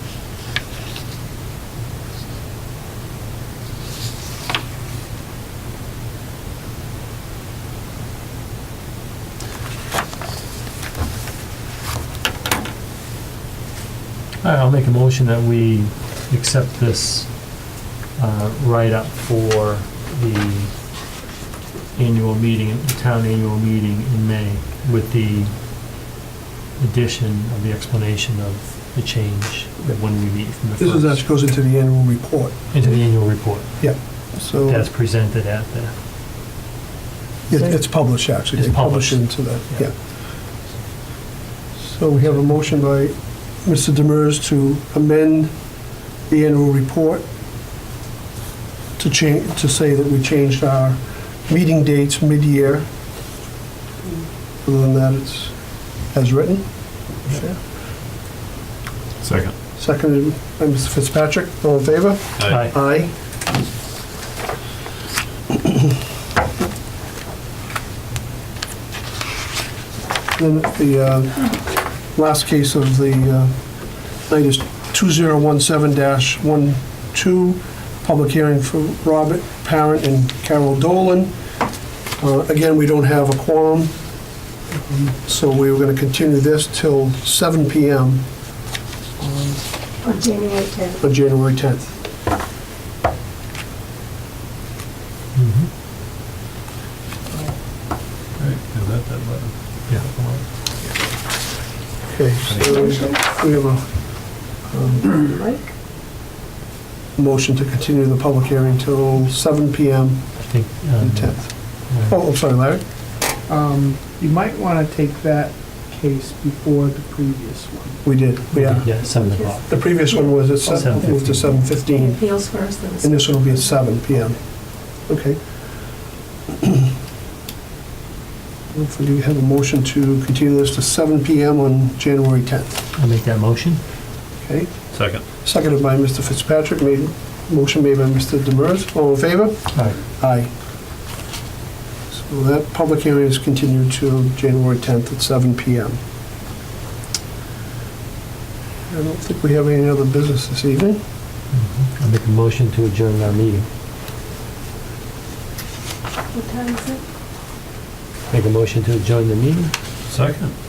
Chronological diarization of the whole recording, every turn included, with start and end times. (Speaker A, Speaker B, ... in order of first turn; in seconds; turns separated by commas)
Speaker A: 14.4-17.6, Speaker A: 18.1-20.8, Speaker A: 21.9-25.5, Speaker A: 26.8-31.2, Speaker B: 30.8-33.1, Speaker A: 32.7-35.9, Speaker B: 33.8-34.9, Speaker B: 37.5-40.0, Speaker A: 37.5-39.9, Speaker B: 41.8-45.7, Speaker B: 46.3-47.2, Speaker B: 49.0-52.9, Speaker B: 54.6-57.6, Speaker C: 59.2-59.5, Speaker B: 59.7-63.1, Speaker C: 62.4-62.7, Speaker A: 62.5-62.7, Speaker B: 70.3-73.7, Speaker B: 74.2-81.3, Speaker B: 82.2-89.6, Speaker D: 90.0-91.0, Speaker B: 91.0-92.0, Speaker A: 95.3-95.7, Speaker C: 98.4-100.4, Speaker B: 102.0-105.2, Speaker D: 102.6-103.3, Speaker D: 105.0-105.7, Speaker B: 107.2-112.8, Speaker A: 110.3-112.2, Speaker E: 113.5-118.0, Speaker B: 118.0-122.2, Speaker A: 118.5-119.9, Speaker D: 119.1-120.5, Speaker A: 120.6-121.6, Speaker D: 121.4-124.0, Speaker B: 123.0-125.5, Speaker B: 128.7-132.7, Speaker A: 132.9-133.8, Speaker B: 134.4-140.5, Speaker C: 134.9-135.2, Speaker A: 139.7-140.0, Speaker B: 142.1-146.0, Speaker B: 148.9-151.0, Speaker A: 151.5-153.7, Speaker D: 156.3-157.0, Speaker A: 158.3-160.5, Speaker C: 160.1-160.5